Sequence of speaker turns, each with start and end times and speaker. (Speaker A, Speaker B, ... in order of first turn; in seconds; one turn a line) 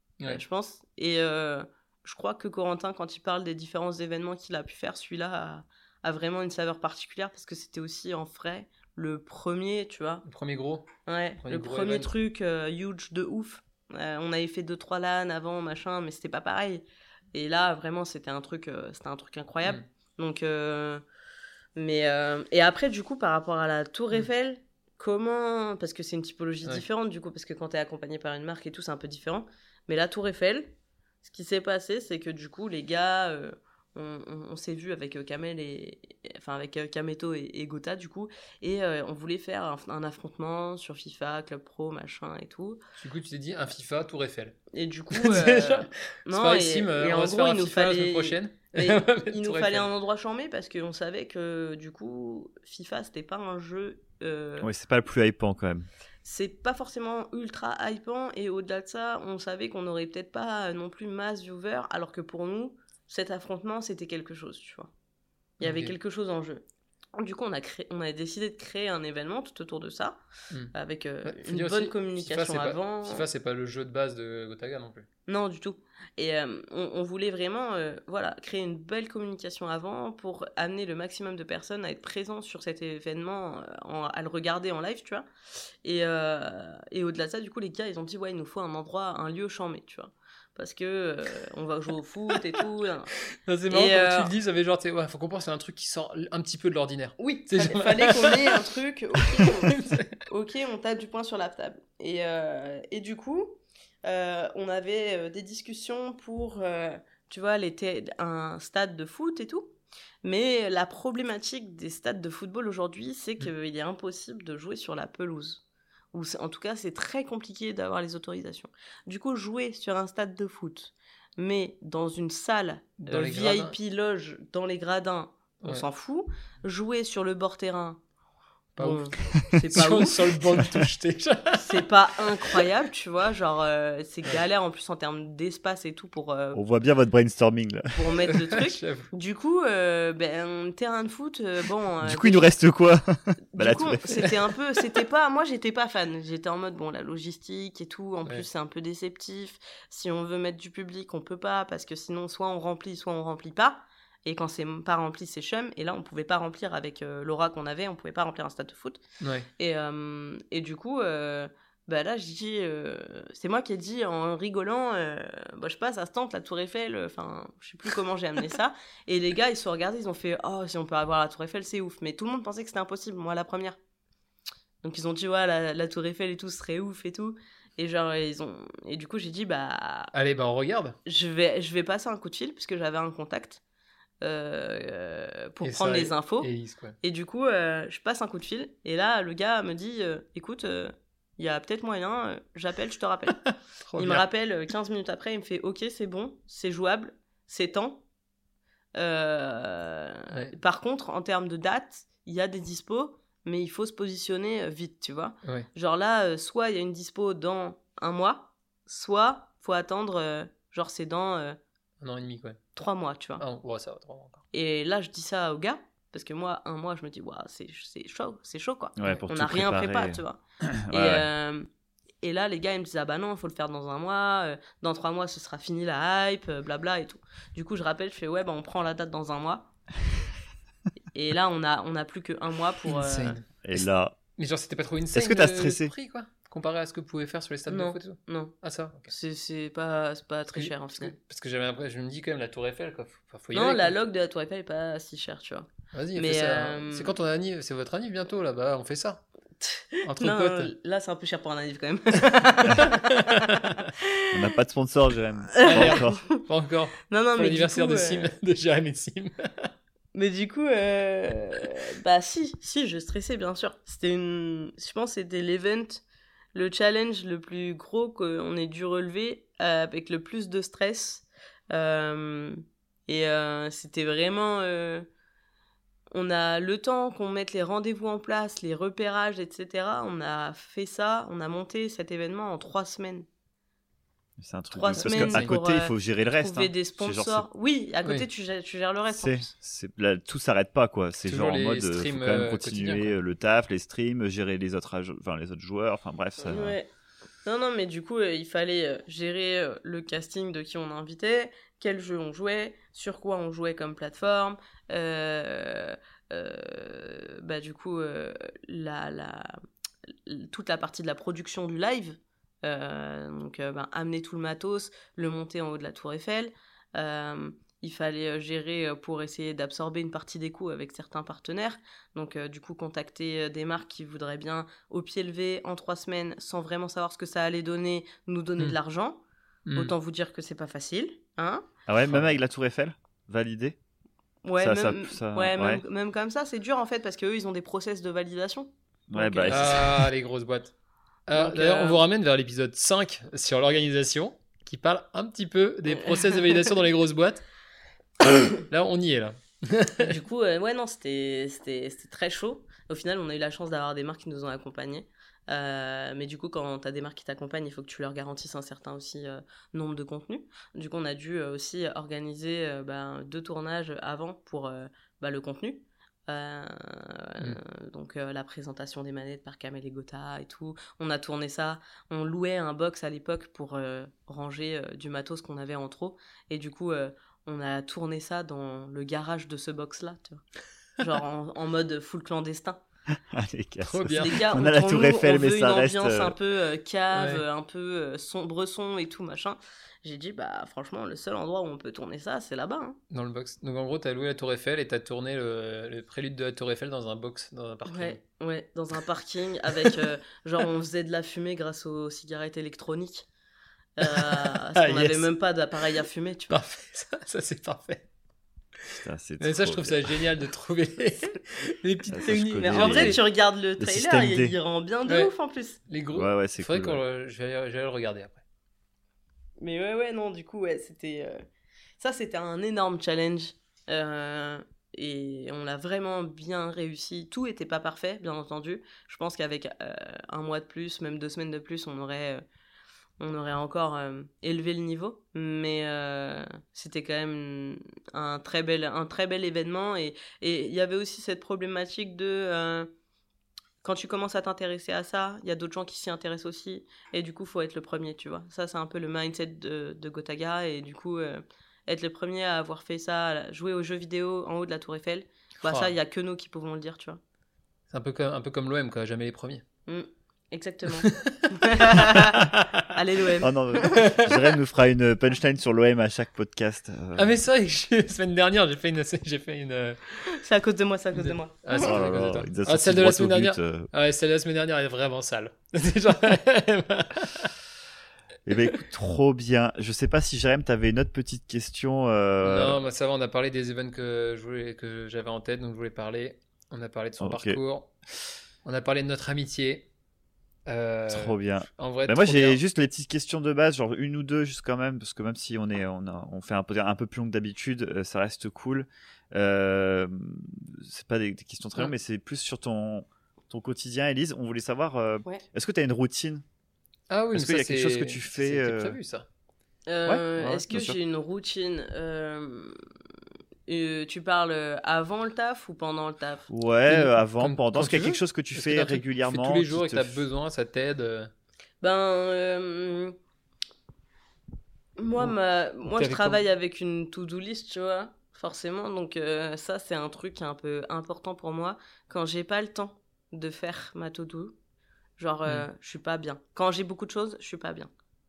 Speaker A: 0.2-10.2
Speaker B: 10.2-10.9
Speaker A: 11.1-21.0
Speaker B: 11.4-12.1
Speaker A: 21.8-42.8
Speaker B: 43.0-44.6
Speaker A: 44.7-54.7
Speaker B: 45.1-49.9
Speaker C: 54.6-55.9
Speaker A: 56.2-64.9
Speaker B: 65.6-65.9
Speaker A: 65.6-66.6
Speaker A: 67.2-70.2
Speaker A: 70.7-73.2
Speaker B: 71.2-75.0
Speaker A: 75.3-85.2
Speaker A: 85.8-93.1
Speaker B: 93.4-98.6
Speaker A: 93.7-94.3
Speaker A: 97.2-128.0
Speaker B: 99.2-100.2
Speaker B: 123.0-123.7
Speaker B: 128.8-131.9
Speaker A: 128.8-130.6
Speaker A: 131.6-136.6
Speaker B: 132.4-132.7
Speaker C: 136.5-137.9
Speaker A: 137.9-142.5
Speaker B: 138.4-139.1
Speaker C: 142.0-144.3
Speaker A: 143.5-159.0
Speaker B: 159.2-159.5
Speaker A: 159.6-173.8
Speaker A: 174.8-180.1
Speaker B: 180.1-181.0
Speaker A: 181.0-183.6
Speaker A: 184.2-186.5
Speaker B: 185.6-187.0
Speaker A: 187.0-193.4
Speaker B: 193.8-194.2
Speaker A: 193.9-198.0
Speaker A: 199.0-211.6
Speaker B: 212.0-212.6
Speaker A: 212.7-213.4
Speaker B: 213.4-214.4
Speaker A: 214.5-221.7
Speaker C: 218.9-220.2
Speaker C: 220.8-221.2
Speaker A: 222.2-229.7
Speaker A: 231.1-233.4
Speaker B: 232.8-233.5
Speaker C: 233.6-234.2
Speaker B: 234.4-239.1
Speaker C: 235.1-235.9
Speaker A: 237.7-238.5
Speaker A: 239.1-241.1
Speaker B: 240.5-243.9
Speaker A: 243.5-247.1
Speaker B: 245.9-249.2
Speaker A: 249.6-254.2
Speaker B: 250.0-250.7
Speaker C: 254.3-256.2
Speaker A: 255.5-256.4
Speaker B: 255.6-259.7
Speaker A: 257.1-258.3
Speaker A: 260.1-266.0
Speaker A: 266.5-275.1
Speaker A: 276.1-283.3
Speaker C: 284.4-287.4
Speaker A: 284.7-289.5
Speaker B: 284.9-285.5
Speaker C: 289.1-296.8
Speaker B: 291.2-293.1
Speaker A: 296.4-296.9
Speaker A: 297.4-309.6
Speaker A: 310.2-329.2
Speaker B: 329.6-329.9
Speaker A: 329.7-331.6
Speaker C: 331.9-333.8
Speaker A: 334.4-339.8
Speaker C: 334.6-335.8
Speaker C: 339.1-340.1
Speaker B: 339.5-340.7
Speaker B: 341.3-347.4
Speaker A: 341.3-342.0
Speaker B: 348.5-350.1
Speaker A: 350.0-380.4
Speaker A: 381.0-382.8
Speaker C: 383.3-386.3
Speaker B: 383.8-384.4
Speaker A: 384.1-393.0
Speaker B: 387.1-387.4
Speaker B: 393.1-398.2
Speaker A: 397.9-403.3
Speaker A: 404.0-406.6
Speaker B: 404.0-405.3
Speaker B: 406.5-408.1
Speaker B: 408.8-413.2
Speaker C: 408.9-410.2
Speaker C: 412.1-413.2
Speaker A: 412.6-415.8
Speaker C: 413.8-414.6
Speaker B: 415.1-415.3
Speaker B: 415.9-418.4
Speaker C: 416.1-417.0
Speaker A: 419.6-421.4
Speaker A: 422.0-432.4
Speaker A: 433.2-442.9
Speaker A: 443.8-457.2
Speaker B: 455.6-455.9
Speaker B: 457.9-459.6
Speaker A: 459.9-463.5
Speaker B: 460.9-462.9
Speaker C: 463.4-467.4
Speaker B: 463.8-464.5
Speaker B: 467.1-470.2
Speaker A: 470.3-471.9
Speaker B: 471.1-477.5
Speaker C: 471.7-473.9
Speaker C: 478.4-482.8
Speaker B: 482.4-487.9
Speaker C: 487.2-487.6
Speaker B: 488.6-489.9
Speaker B: 490.7-492.6
Speaker C: 491.1-506.4
Speaker B: 507.1-509.2
Speaker C: 507.3-509.0
Speaker A: 509.9-512.8
Speaker C: 510.1-511.0
Speaker B: 510.4-510.6
Speaker A: 513.7-516.5
Speaker C: 516.5-520.2
Speaker B: 516.9-521.3
Speaker A: 521.8-523.1
Speaker A: 525.0-534.5
Speaker B: 525.9-526.4
Speaker A: 535.2-537.9